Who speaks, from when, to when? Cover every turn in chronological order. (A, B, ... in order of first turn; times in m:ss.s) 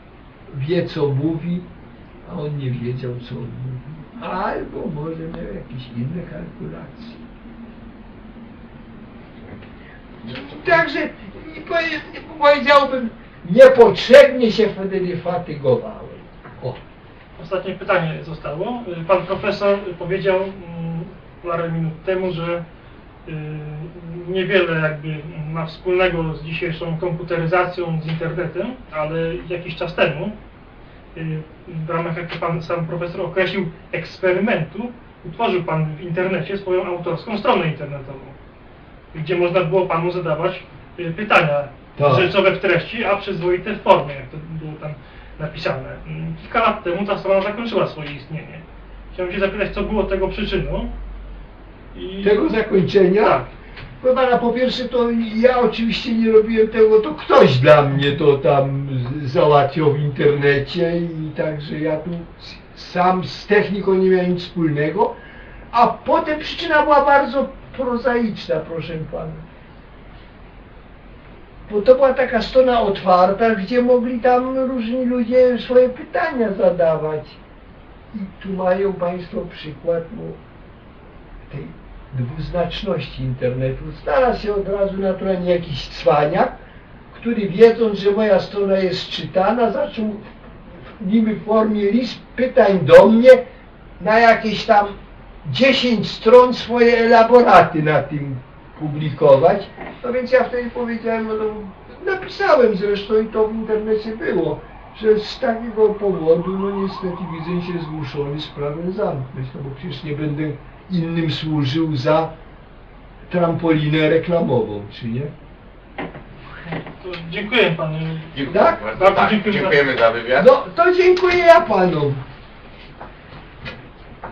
0:00.5-0:01.7 A
0:02.2-0:07.2 A
0:10.2-0:16.8 A
0:17.4-0:22.6 B
0:23.3-0:30.4 B
0:31.2-0:38.4 B
0:39.1-0:50.9 B
0:42.0-0:42.3 A
0:51.9-0:52.6 B
0:52.2-0:53.4 A
0:53.1-0:53.5 B
0:54.0-1:05.2 A
1:05.7-1:09.4 A
1:11.7-1:17.4 A
1:18.1-1:20.4 A
1:21.5-1:26.5 A
1:27.1-1:30.2 A
1:30.9-1:33.4 A
1:34.0-1:52.3 A
1:53.3-1:55.3 A
1:56.7-1:59.9 B
1:58.3-2:00.5 C
1:58.5-1:58.8 A
2:00.4-2:02.2 A